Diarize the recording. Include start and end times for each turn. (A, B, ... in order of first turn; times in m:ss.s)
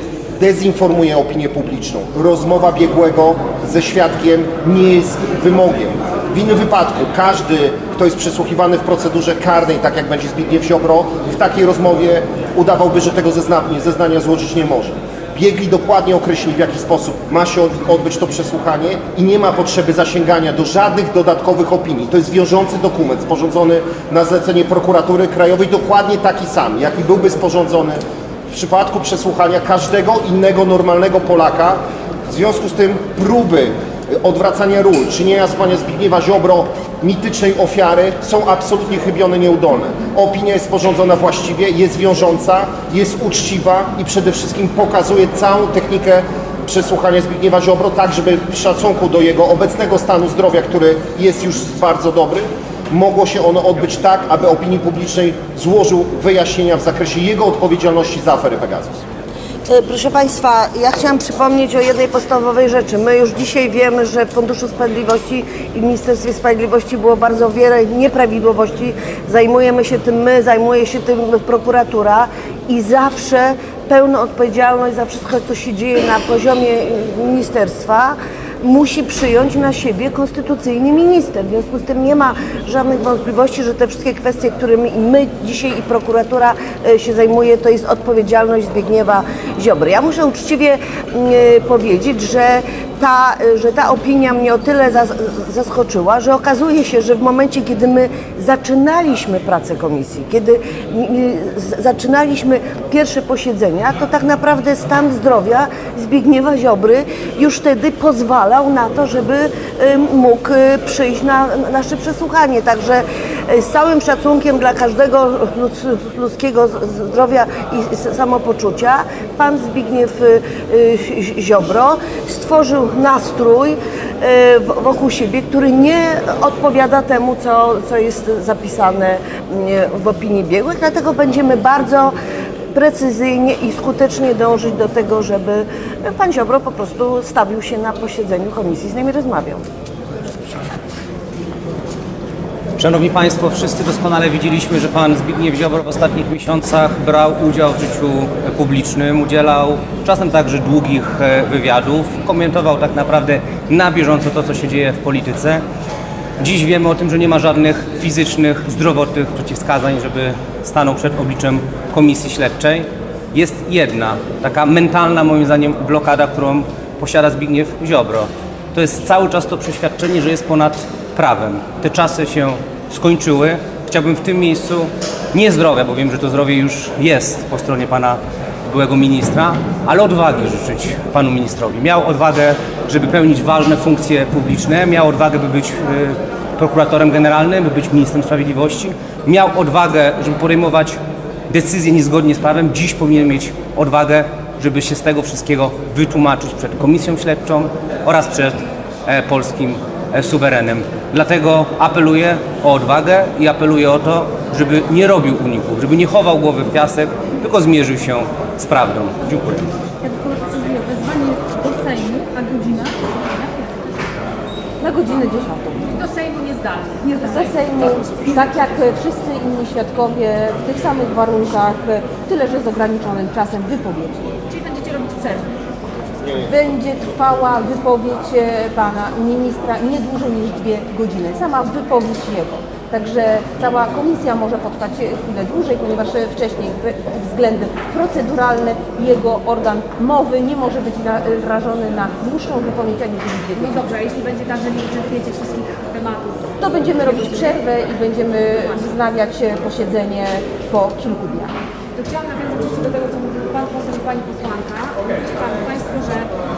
0:00.4-0:59.0 A
0:59.7-2:12.2 B
2:12.7-2:19.6 B
2:22.8-2:35.6 C
2:36.4-3:29.7 C
3:30.0-3:34.1 D
3:34.8-3:36.0 E
3:35.9-3:37.7 D
3:37.0-3:44.3 E
3:44.5-3:45.5 D
3:46.4-4:03.8 E
4:03.6-4:07.5 D
4:06.6-4:11.6 E
4:12.0-4:16.3 D